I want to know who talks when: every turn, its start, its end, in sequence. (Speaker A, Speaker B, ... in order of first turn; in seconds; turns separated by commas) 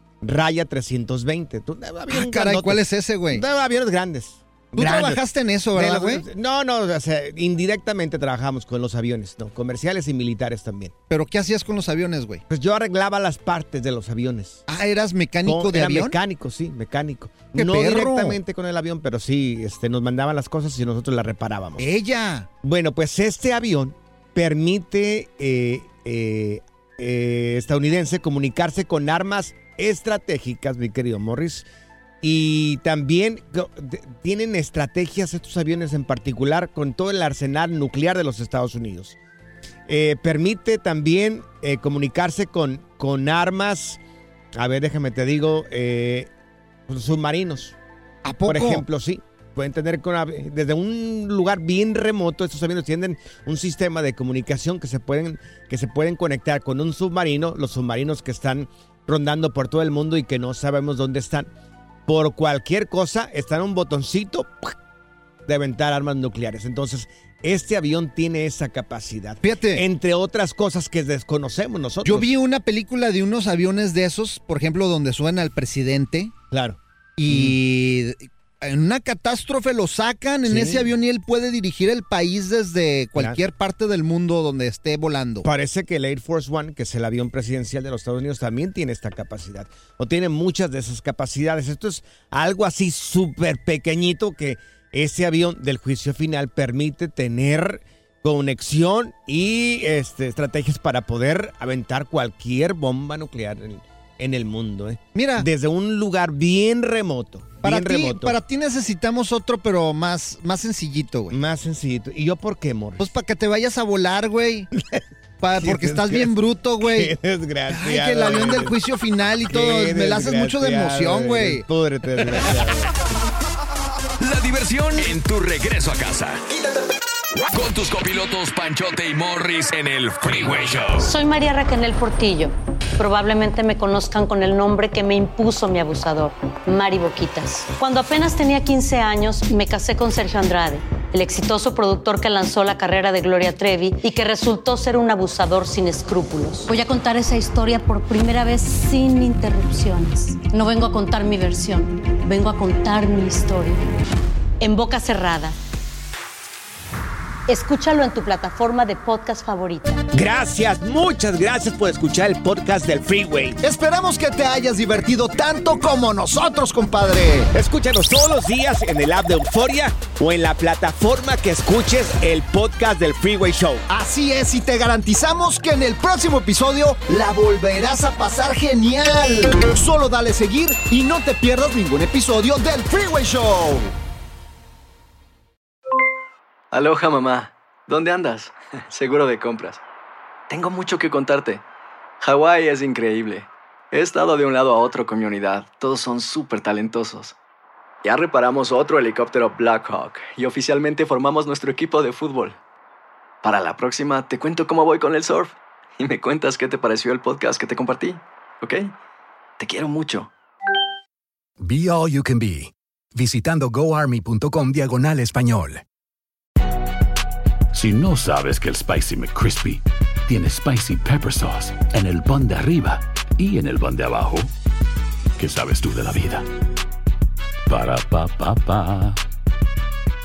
Speaker A: 0.2-5.2, Speaker B: 2.1-3.4, Speaker B: 4.8-6.2, Speaker A: 5.7-10.9, Speaker B: 11.1-12.4, Speaker A: 12.5-14.6, Speaker B: 14.7-16.1, Speaker A: 15.4-21.9, Speaker B: 17.6-18.4, Speaker B: 21.8-22.5, Speaker A: 22.6-31.7, Speaker A: 32.2-39.2, Speaker A: 39.9-44.0, Speaker A: 44.6-46.3, Speaker A: 46.9-47.8, Speaker B: 48.2-48.8, Speaker A: 48.5-61.5, Speaker A: 62.1-64.8, Speaker A: 65.5-72.3, Speaker B: 69.4-69.8, Speaker B: 72.0-76.3, Speaker A: 76.5-76.8, Speaker B: 77.2-85.5, Speaker A: 77.3-77.6, Speaker A: 80.5-80.9, Speaker A: 85.4-108.4, Speaker B: 105.2-105.5, Speaker B: 107.6-111.4, Speaker A: 111.3-113.1, Speaker B: 113.0-114.7, Speaker A: 114.8-115.0, Speaker B: 115.4-117.1, Speaker A: 115.6-118.8, Speaker B: 117.7-121.6, Speaker A: 119.5-122.9, Speaker C: 124.2-126.4, Speaker C: 127.5-131.1, Speaker D: 131.0-153.8, Speaker D: 154.6-155.6, Speaker D: 157.5-160.1, Speaker A: 160.1-163.6, Speaker B: 163.6-167.5, Speaker A: 167.5-173.8, Speaker B: 173.9-183.9, Speaker E: 186.7-189.8, Speaker E: 190.5-191.6, Speaker E: 192.2-197.3, Speaker E: 198.0-202.6, Speaker E: 203.4-208.9, Speaker E: 209.6-210.3, Speaker F: 211.6-215.8, Speaker G: 217.7-224.5, Speaker G: 225.4-226.5, Speaker G: 227.7-229.2